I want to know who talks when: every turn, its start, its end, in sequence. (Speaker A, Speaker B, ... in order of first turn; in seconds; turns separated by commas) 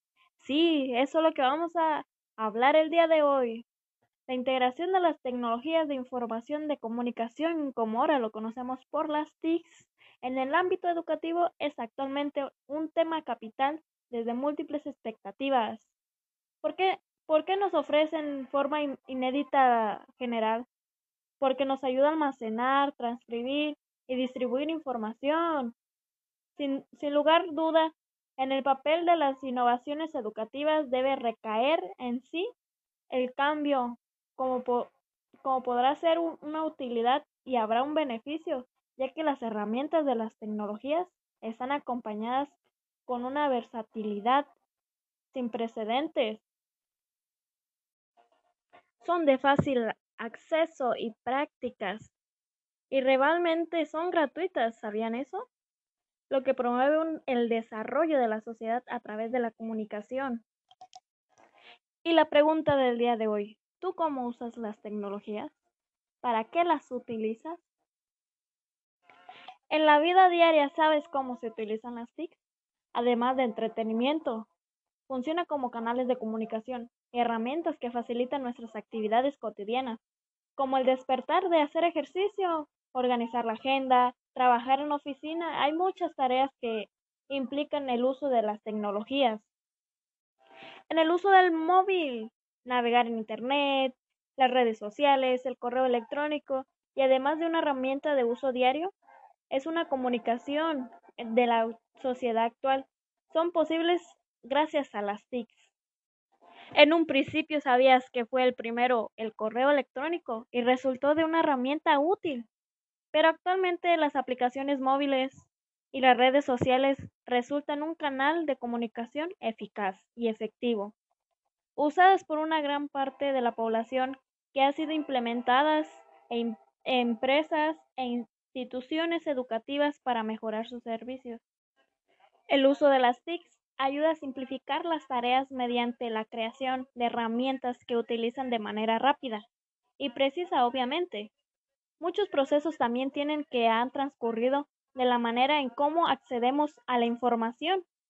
Speaker A: 0.4-3.6, Speaker A: 4.3-15.9, Speaker A: 16.6-20.7, Speaker A: 21.4-25.7, Speaker A: 26.6-32.5, Speaker A: 33.1-34.9, Speaker A: 35.4-44.5, Speaker A: 45.3-46.4, Speaker A: 49.0-52.1, Speaker A: 52.9-55.5, Speaker A: 56.3-60.4, Speaker A: 62.0-65.5, Speaker A: 66.2-67.6, Speaker A: 69.7-72.4, Speaker A: 72.9-74.5, Speaker A: 75.1-80.0, Speaker A: 80.6-89.5, Speaker A: 90.9-98.9, Speaker A: 99.5-105.7, Speaker A: 106.7-112.5, Speaker A: 113.1-120.9, Speaker A: 121.8-131.4, Speaker A: 132.5-139.4, Speaker A: 140.0-141.3, Speaker A: 142.0-147.8